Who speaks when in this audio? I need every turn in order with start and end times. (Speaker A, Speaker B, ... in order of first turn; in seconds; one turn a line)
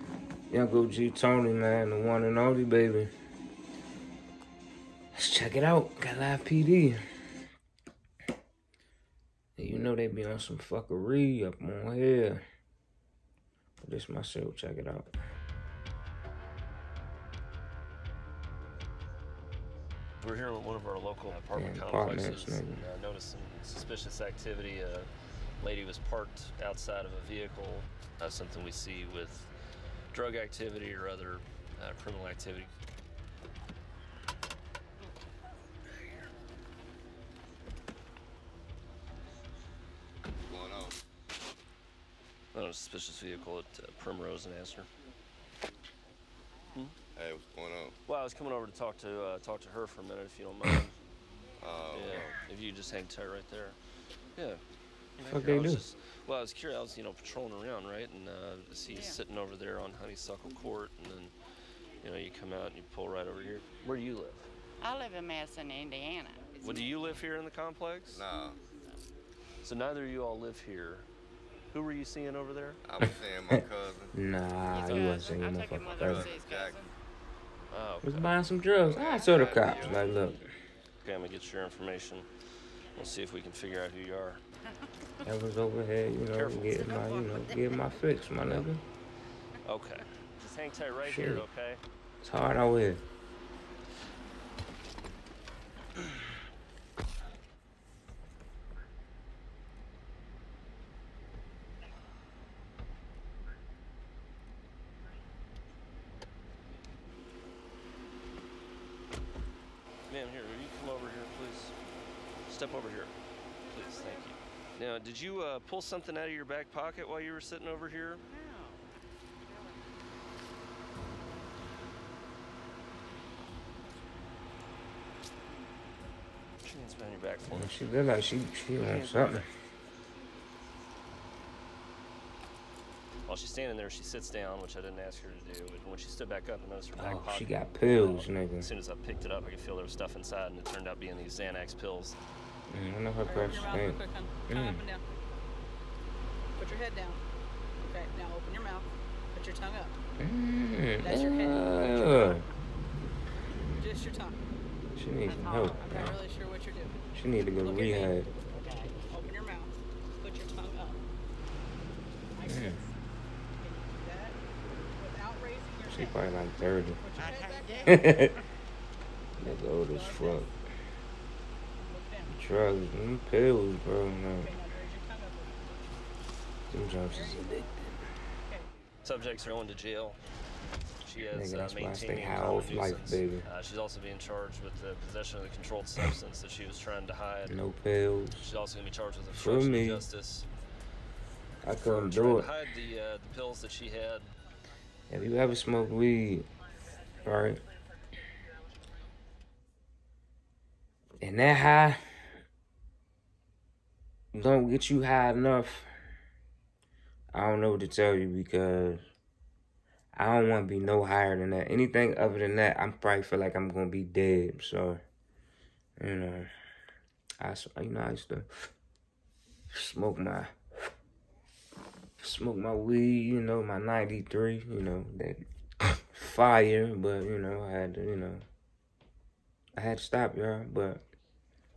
Speaker A: 0.5-3.1
Speaker A: 5.2-7.0
Speaker A: 9.6-12.4
Speaker A: 13.8-15.1
Speaker B: 20.2-25.1
Speaker A: 21.5-22.8
Speaker B: 25.6-29.5
Speaker B: 30.1-32.7
Speaker C: 40.5-41.0
Speaker B: 42.5-44.9
Speaker C: 47.1-48.0
Speaker B: 48.1-51.0
Speaker C: 51.6-52.4
Speaker B: 51.9-53.8
Speaker B: 54.4-54.6
Speaker B: 55.2-61.3
Speaker A: 55.3-55.8
Speaker D: 58.9-59.2
Speaker B: 62.0-64.5
Speaker D: 64.8-67.2
Speaker B: 66.6-68.2
Speaker C: 68.1-68.6
Speaker B: 69.6-71.1
Speaker B: 71.7-72.8
Speaker C: 72.8-74.2
Speaker A: 74.2-76.3
Speaker D: 74.7-76.9
Speaker C: 75.8-76.8
Speaker B: 77.7-78.3
Speaker A: 78.0-80.5
Speaker C: 78.8-80.1
Speaker B: 81.0-82.3
Speaker B: 83.0-84.4
Speaker A: 85.2-88.8
Speaker B: 86.3-86.9
Speaker D: 86.6-88.1
Speaker B: 89.7-91.8
Speaker A: 91.0-91.5
Speaker A: 92.2-93.0
Speaker B: 110.1-111.8
Speaker B: 112.5-113.1
Speaker D: 113.6-114.3
Speaker B: 113.7-118.2
Speaker D: 118.3-118.9
Speaker D: 119.5-119.8
Speaker B: 126.6-127.8
Speaker A: 127.5-129.4
Speaker B: 128.8-129.5
Speaker B: 133.3-142.2
Speaker A: 136.9-138.7
Speaker A: 142.7-144.8
Speaker E: 143.2-145.0
Speaker E: 146.6-147.2
Speaker E: 147.8-150.0
Speaker A: 150.2-152.4
Speaker E: 151.0-152.4
Speaker E: 153.8-154.4
Speaker A: 155.0-156.2
Speaker D: 155.3-156.1
Speaker E: 155.8-157.0
Speaker A: 157.1-158.3
Speaker E: 157.6-158.2
Speaker D: 158.5-158.9
Speaker E: 159.1-161.0
Speaker E: 162.3-162.9
Speaker A: 162.4-162.8
Speaker E: 163.6-164.4
Speaker E: 165.0-166.3
Speaker A: 165.9-167.0
Speaker E: 167.0-168.2
Speaker D: 167.2-168.4
Speaker A: 167.9-168.3
Speaker A: 169.4-170.5
Speaker E: 169.4-170.5
Speaker E: 171.8-172.4
Speaker A: 172.3-174.5
Speaker E: 174.4-175.8
Speaker A: 176.7-177.9
Speaker E: 177.1-177.7
Speaker E: 178.4-178.7
Speaker B: 179.0-180.2
Speaker B: 181.0-187.6
Speaker A: 181.3-183.4
Speaker A: 187.5-188.5
Speaker B: 188.4-190.5
Speaker A: 189.3-190.1
Speaker A: 191.6-192.5
Speaker B: 191.8-194.3
Speaker A: 195.1-196.5
Speaker A: 197.2-197.6
Speaker A: 201.2-202.0
Speaker A: 204.3-205.9
Speaker A: 207.3-209.0
Speaker A: 210.2-215.0
Speaker A: 216.0-216.5
Speaker A: 217.4-218.5
Speaker A: 219.7-220.5
Speaker A: 222.2-228.4
Speaker A: 229.8-231.0